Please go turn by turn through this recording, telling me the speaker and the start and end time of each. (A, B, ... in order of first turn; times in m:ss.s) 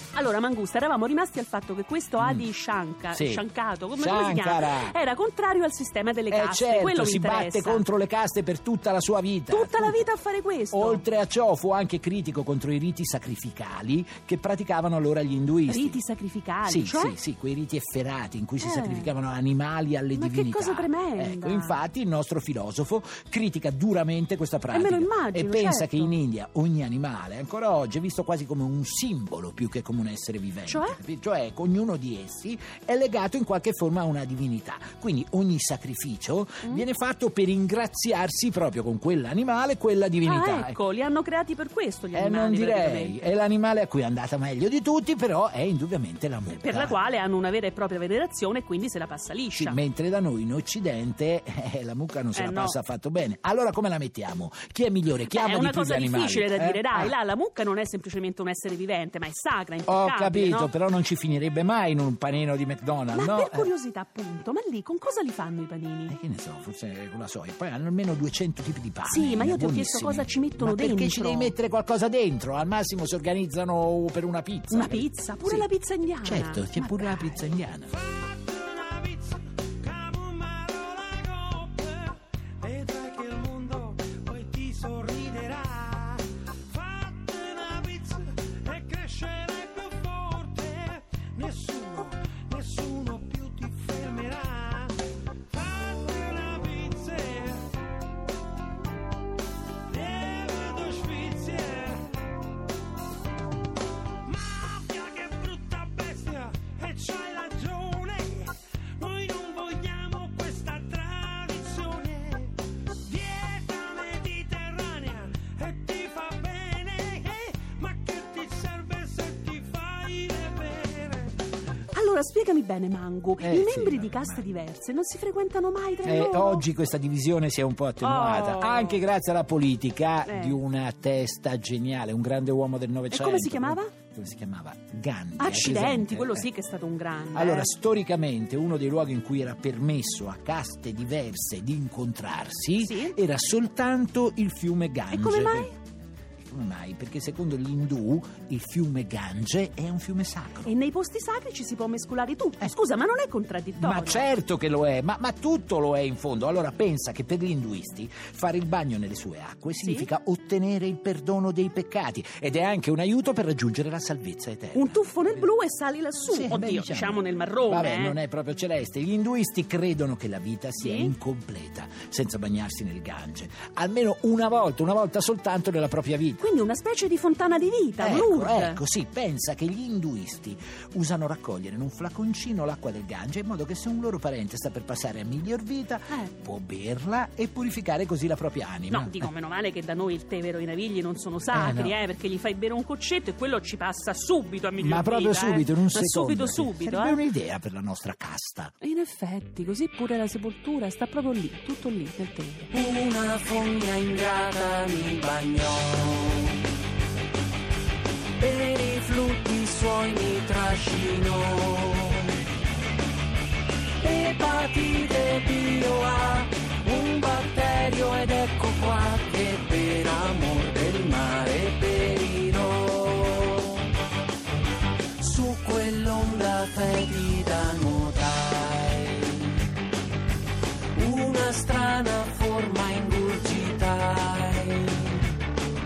0:00.1-0:07.9 A
0:02.2-0:02.5 B
0:03.1-0:03.4 B
0:04.0-0:05.0 B
0:06.3-0:10.1 B
0:09.5-0:11.0 A
0:10.7-0:16.0 B
0:15.7-0:17.2 A
0:16.7-0:40.8 B
0:18.6-0:19.1 A
0:20.1-0:21.8 A
0:24.7-0:26.1 A
0:30.7-0:31.0 A
0:40.2-0:43.4 A
0:42.1-0:47.0 B
0:46.6-0:49.8 A
0:49.6-0:57.1 B
0:52.3-0:52.8 A
0:55.3-1:00.7 A
0:59.9-1:03.7 B
1:03.1-1:06.2 A
1:06.1-1:15.7 B
1:09.0-1:11.5 A
1:14.7-1:17.5 A
1:16.2-1:17.9 B
1:18.1-1:34.9 C
1:35.5-1:37.6 C
1:39.9-1:42.0 C
1:44.3-1:52.5 C
1:53.1-2:01.3 C
2:01.9-2:06.6 A
2:03.4-2:04.4 B
2:06.0-2:16.5 B
2:08.0-2:09.0 A
2:10.3-2:10.6 A
2:13.1-2:13.9 A
2:15.4-2:17.7 A
2:17.3-2:25.8 B
2:22.8-2:23.2 A
2:25.1-2:25.8 A
2:26.4-2:30.8 B
2:30.6-2:34.3 A
2:33.8-2:45.5 B
2:39.8-2:40.1 A
2:44.8-2:48.2 A
2:46.3-2:56.4 B
2:50.8-2:51.1 A
2:56.4-2:58.8 A
2:58.0-3:09.3 B
3:08.9-3:17.2 A
3:11.5-3:12.0 B
3:14.8-3:18.7 B
3:18.8-3:22.7 A
3:22.7-3:26.6 D
3:28.4-3:32.4 D
3:34.0-3:43.9 D
3:45.2-3:49.6 D
3:51.0-3:55.3 D